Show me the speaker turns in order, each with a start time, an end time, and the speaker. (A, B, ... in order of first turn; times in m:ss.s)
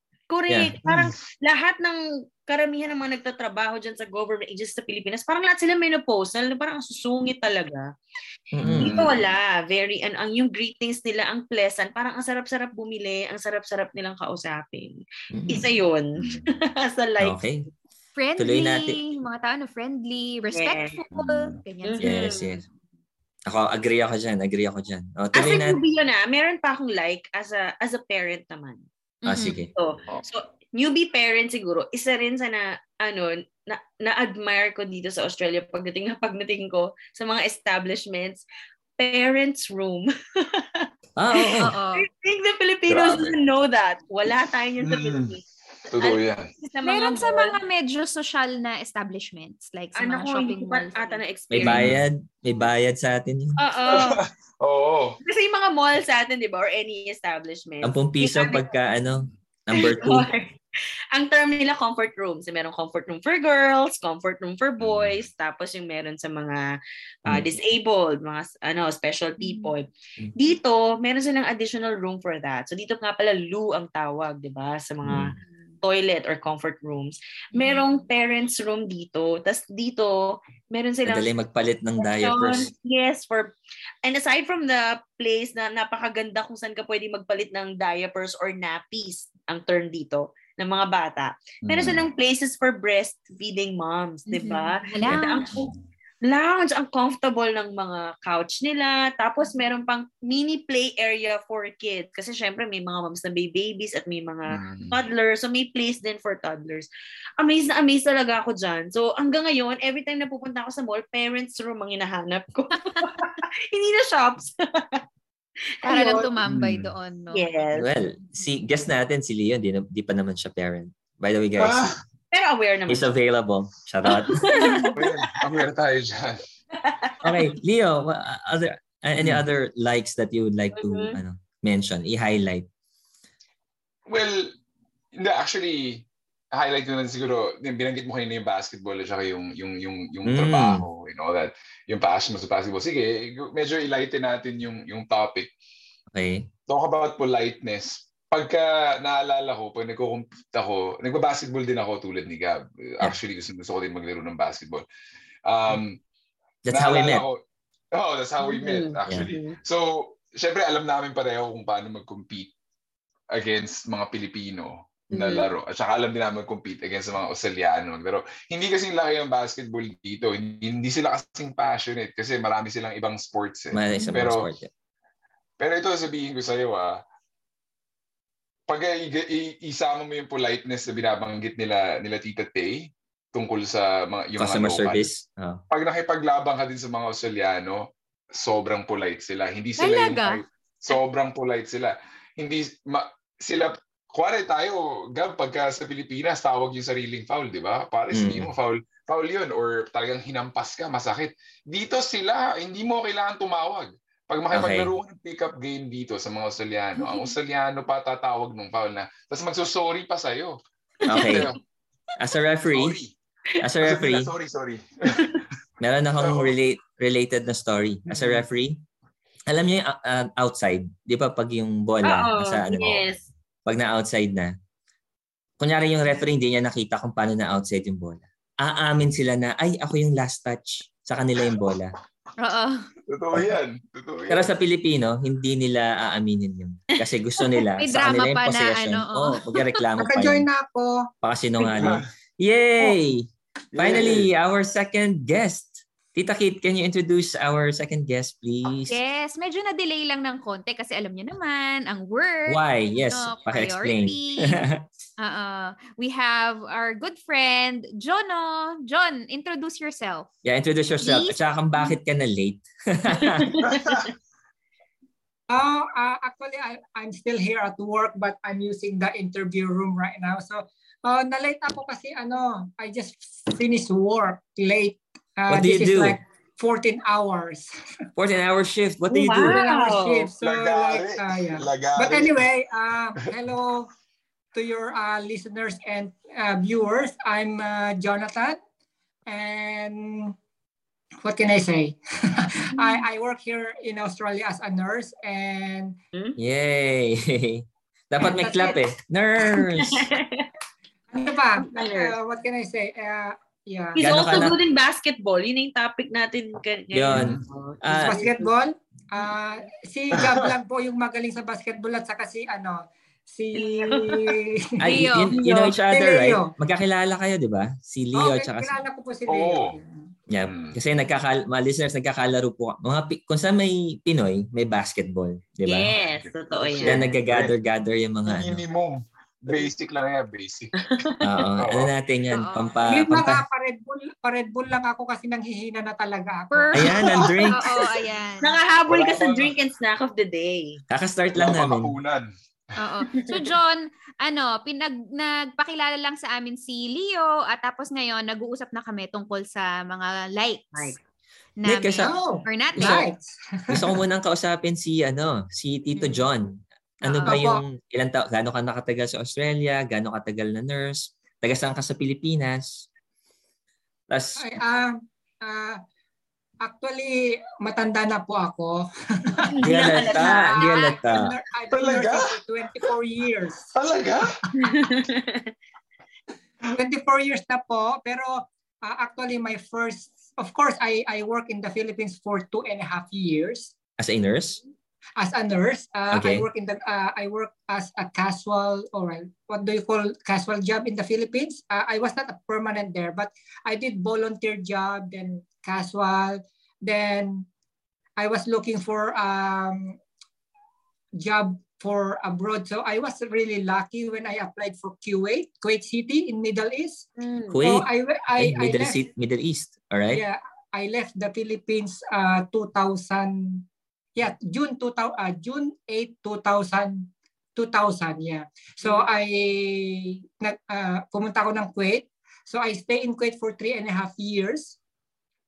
0:00.3-0:07.9 A
0:00.5-0:01.1 B
0:00.9-0:01.2 C
0:08.6-0:09.0 B
0:08.6-0:09.3 C
0:08.7-0:17.4 A
0:15.3-0:15.7 B
0:16.2-0:16.5 C
0:17.2-0:17.7 B
0:18.2-0:22.6 D
0:18.4-0:19.0 B
0:20.5-0:21.0 A
0:21.1-0:21.6 C
0:21.8-0:22.6 A
0:22.0-0:22.6 B
0:23.5-0:25.8 B
0:25.3-0:28.8 A
0:29.2-0:29.6 D
0:29.3-0:29.7 B
0:29.4-0:38.4 A
0:39.0-0:47.6 A
0:41.2-0:41.8 B
0:41.6-0:42.1 D
0:42.9-0:43.4 C
0:44.8-0:46.5 C
0:46.8-0:51.2 D
0:50.0-0:51.9 A
0:51.5-0:53.6 B
0:51.6-0:52.0 C
0:53.6-0:54.2 A
0:53.9-0:55.2 C
0:55.2-0:58.7 A
0:57.8-1:00.3 B
0:59.8-1:00.6 A
1:01.1-1:06.7 A
1:04.8-1:05.3 C
1:07.3-1:21.3 A
1:07.3-1:07.6 B
1:09.4-1:09.7 D
1:15.1-1:15.3 B
1:17.5-1:17.8 D
1:21.1-1:22.7 B
1:22.0-1:35.7 A
1:31.6-1:32.1 C
1:34.3-1:35.5 D
1:35.1-1:35.8 C
1:36.3-1:46.9 A
1:44.5-1:45.0 C
1:47.4-1:55.0 A
1:55.8-1:56.3 A
1:55.8-1:57.4 D
1:56.4-1:56.9 C
1:57.3-1:57.9 A
1:57.7-2:01.9 B
2:01.6-2:02.0 C
2:02.3-2:03.1 A
2:02.9-2:04.8 B
2:04.0-2:05.1 A
2:04.6-2:05.0 D
2:04.9-2:06.4 C
2:06.7-2:07.1 A
2:07.2-2:12.7 B
2:09.2-2:09.4 C
2:10.8-2:11.2 A
2:14.1-2:14.5 C
2:15.2-2:25.5 C
2:20.3-2:20.8 B
2:26.1-2:26.5 B
2:26.7-2:34.8 C
2:35.5-2:36.0 C
2:36.7-2:37.2 B
2:36.7-2:37.4 C
2:37.9-2:42.5 C
2:38.4-2:39.6 A
2:43.3-2:54.5 C
2:45.1-2:45.5 A
2:53.7-2:54.7 B
2:53.9-2:54.2 D
2:55.6-2:57.0 C
2:58.7-3:05.1 C
3:04.4-3:05.6 B
3:05.7-3:31.6 C
3:09.8-3:10.4 D
3:18.1-3:18.5 B
3:24.5-3:24.9 B
3:31.1-3:31.5 B
3:32.2-3:33.0 B
3:32.7-3:33.2 C
3:33.6-3:34.3 B
3:33.8-3:35.4 C
3:35.2-3:35.4 A
3:35.8-3:38.8 B
3:36.2-3:36.5 C
3:38.1-3:38.4 C
3:39.5-3:43.1 B
3:42.0-3:43.3 A
3:43.7-3:44.5 B
3:45.6-3:51.9 B
3:52.4-3:52.9 D
3:53.1-3:54.5 C
3:54.3-4:00.5 B
3:57.8-3:59.4 D
4:00.0-4:01.1 E
4:01.2-4:09.0 B
4:01.8-4:02.1 C
4:03.7-4:04.3 C
4:08.9-4:14.6 D
4:12.5-4:14.8 B
4:15.2-4:20.3 D
4:20.4-4:23.6 B
4:21.0-4:21.4 D
4:23.2-4:24.1 A
4:23.6-4:24.1 C
4:25.5-4:37.7 E
4:35.5-4:36.2 B
4:38.2-4:39.6 B
4:39.1-4:40.3 A
4:39.4-4:43.9 E
4:40.4-4:42.5 C
4:44.5-4:48.6 E
4:49.3-4:50.3 E
4:51.2-4:56.0 E
4:56.4-5:00.1 B
4:58.2-4:58.8 E
4:59.5-5:00.5 A
5:01.1-5:04.5 E
5:01.6-5:02.2 A
5:04.0-5:08.5 A
5:04.0-5:04.6 B
5:06.9-5:08.2 B
5:07.1-5:07.5 C
5:08.0-5:16.5 E
5:10.1-5:10.5 C
5:13.6-5:14.4 A
5:14.8-5:18.8 B
5:14.9-5:15.4 D
5:18.1-5:20.1 E
5:19.3-5:19.8 C
5:20.3-5:25.9 B
5:20.4-5:20.8 C
5:25.6-5:27.1 A
5:26.2-5:27.5 C
5:26.8-5:28.6 B
5:28.3-5:30.8 C
5:30.8-5:31.2 A
5:31.2-5:33.4 B
5:31.6-5:31.9 C
5:32.3-5:32.8 D
5:32.9-5:37.4 E
5:36.5-5:38.6 D
5:36.7-5:37.7 B
5:37.1-5:37.5 A
5:38.4-5:40.8 A
5:38.9-5:39.5 C
5:40.9-5:42.0 B
5:41.4-5:42.3 C
5:42.8-5:51.0 D
5:43.1-5:43.4 A
5:51.6-5:53.1 D
5:51.6-5:52.1 B
5:52.0-5:54.0 E
5:52.8-5:53.1 B
5:53.7-6:02.9 B
5:56.0-5:56.3 D
5:57.0-5:57.4 D
5:57.2-5:57.6 E
6:04.1-6:04.5 B
6:04.4-6:05.8 E
6:06.6-6:13.7 E
6:09.5-6:10.8 A
6:09.6-6:11.3 B
6:11.7-6:12.4 C
6:13.7-6:14.4 C
6:14.6-6:15.5 A
6:16.7-6:23.7 E
6:24.0-6:24.6 B
6:25.2-6:37.5 E
6:26.1-6:26.5 B
6:38.2-6:40.0 E
6:41.2-6:47.1 E
6:47.2-6:47.6 A
6:47.5-6:50.2 B
6:47.6-6:49.0 E
6:50.1-6:53.6 E
6:54.2-7:04.8 E